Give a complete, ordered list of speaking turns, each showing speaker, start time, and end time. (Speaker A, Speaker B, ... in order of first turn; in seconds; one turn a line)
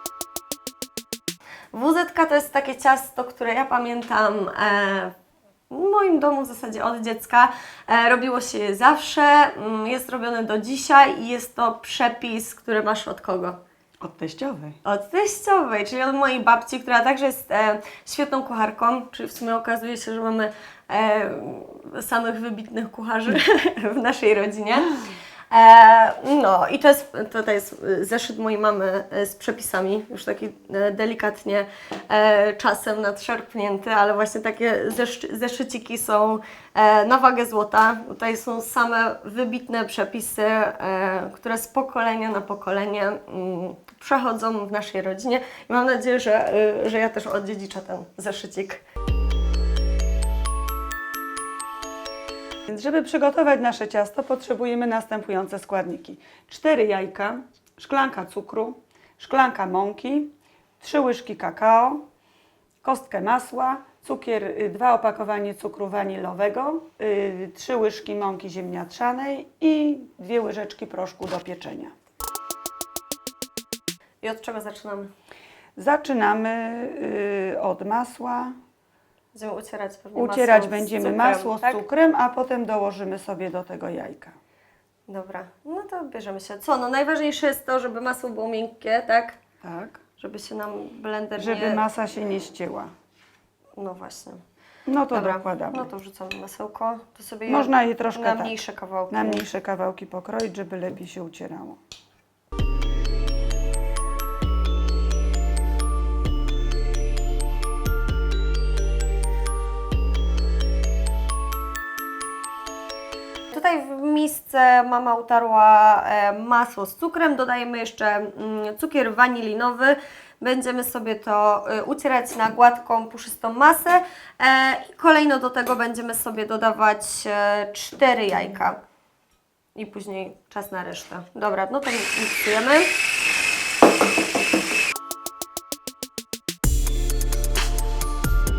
Speaker A: 1.7-5.1
Speaker A: 5.7-13.6
Speaker B: 14.0-14.8
Speaker A: 14.8-48.8
Speaker B: 52.7-62.0
Speaker B: 62.8-71.9
Speaker A: 74.2-75.1
Speaker B: 75.8-78.5
Speaker A: 79.3-81.8
Speaker B: 80.1-84.3
Speaker A: 85.1-89.4
Speaker B: 89.6-90.0
Speaker A: 90.2-91.8
Speaker B: 91.4-92.9
Speaker A: 93.8-94.4
Speaker B: 94.9-95.9
Speaker A: 95.1-99.4
Speaker B: 97.5-98.6
Speaker B: 99.1-101.8
Speaker A: 113.5-128.8
Speaker A: 129.7-132.9